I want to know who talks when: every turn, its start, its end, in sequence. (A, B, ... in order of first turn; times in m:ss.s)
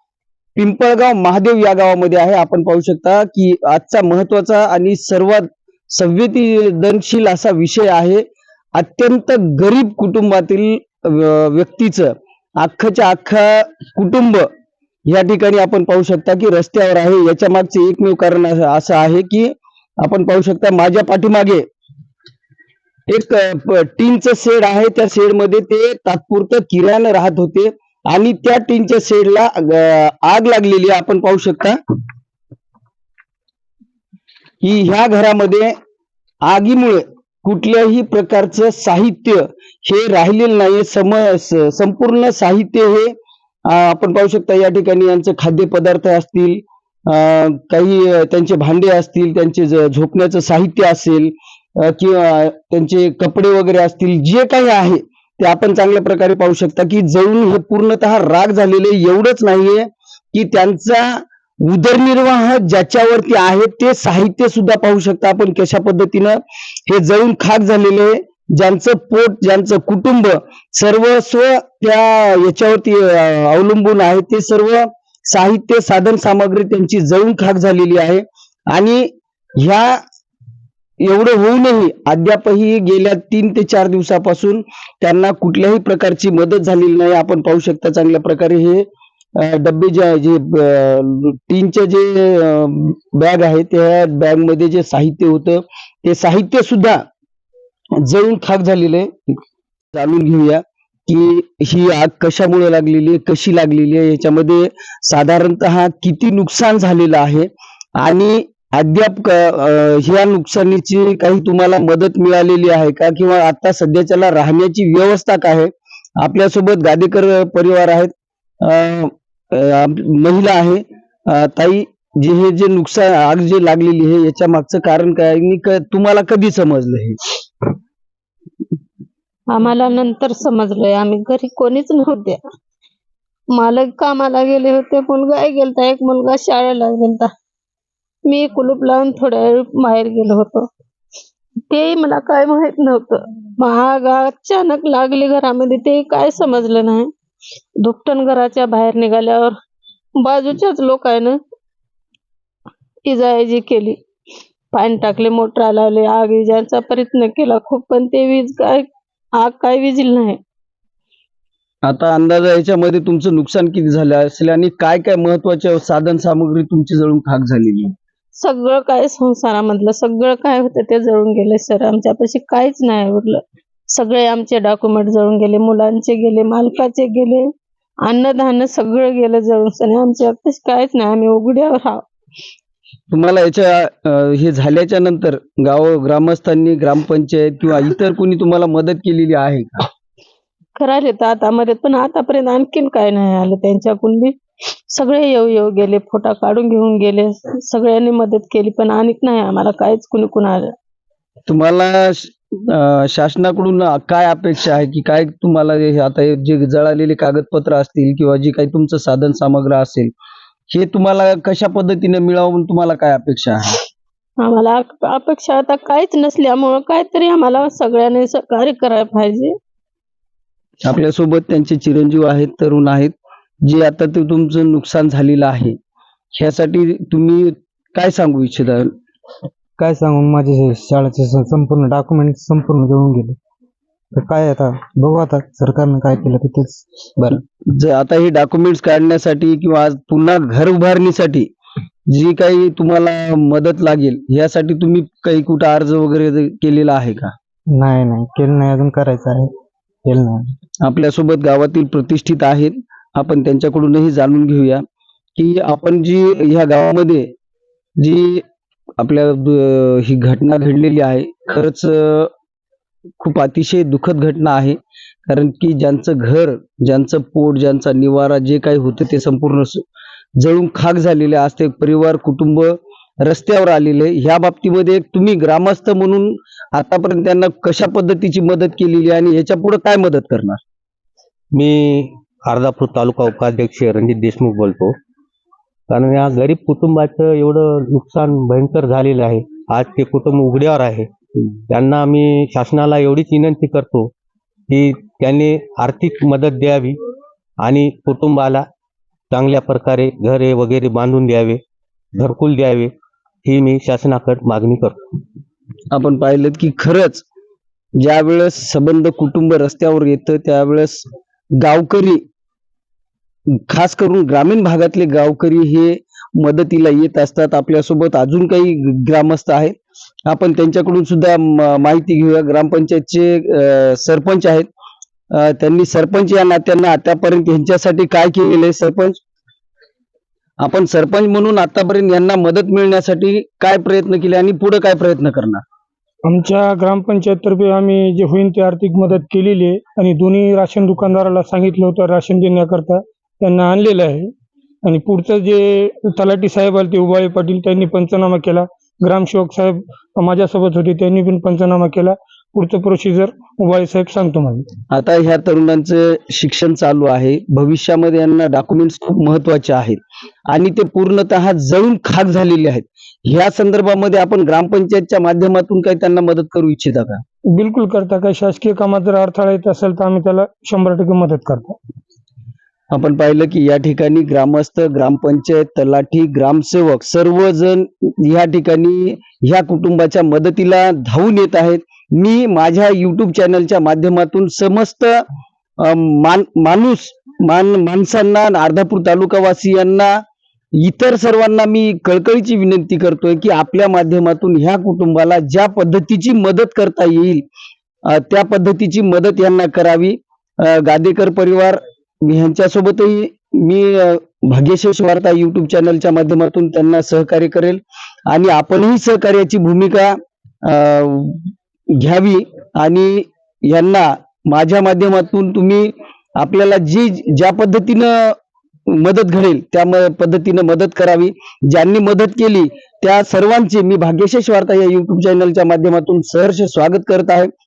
0:00.6-0:08.2 A
0:08.8-0:14.4 A
0:15.1-0:21.7 A
0:23.1-0:31.8 A
0:34.6-0:35.7 A
0:36.4-0:43.1 A
0:43.7-1:20.0 A
1:21.0-1:28.9 A
1:29.4-1:37.0 A
1:38.0-1:39.4 A
1:39.9-1:58.1 A
1:58.6-2:07.2 A
2:09.5-2:12.4 B
2:13.6-2:17.3 B
2:18.3-2:20.7 B
2:21.7-2:27.1 B
2:27.8-2:29.6 B
2:30.2-2:31.4 B
2:33.1-2:34.0 B
2:34.7-2:38.9 B
2:39.4-2:40.4 B
2:41.9-2:47.9 A
2:48.4-2:57.5 B
2:58.1-3:02.0 B
3:03.1-3:09.9 A
3:10.8-3:14.4 B
3:14.9-3:20.7 B
3:21.5-3:30.1 A
3:30.7-3:33.8 A
3:34.4-3:39.5 B
3:40.9-3:45.8 A
3:46.4-3:48.9 A
3:49.8-3:53.4 C
3:54.1-3:56.8 C
3:57.2-4:01.5 A
4:02.1-4:07.3 A
4:07.7-4:09.5 C
4:10.0-4:10.5 C
4:10.8-4:14.8 A
4:15.4-4:17.3 A
4:18.0-4:18.4 A
4:19.0-4:22.3 A
4:23.2-4:29.9 A
4:30.4-4:40.6 A
4:41.6-4:45.0 D
4:45.9-4:54.1 D
4:54.7-4:57.0 D
4:57.6-4:58.6 D
4:59.3-5:01.6 D
5:02.2-5:02.9 D
5:03.4-5:05.2 D
5:05.9-5:07.2 A
5:08.0-5:11.0 A
5:11.6-5:12.2 A
5:13.7-5:19.8 A
5:20.3-5:24.7 A
5:25.3-5:29.2 A
5:30.6-5:35.6 A
5:36.3-5:44.3 E
5:44.8-5:54.7 E
5:54.9-6:07.2 A
6:07.6-6:11.8 E
6:12.9-6:25.2 A
6:25.8-6:30.1 A
6:30.8-6:37.4 A
6:38.1-6:58.4 A
6:58.9-7:07.5 A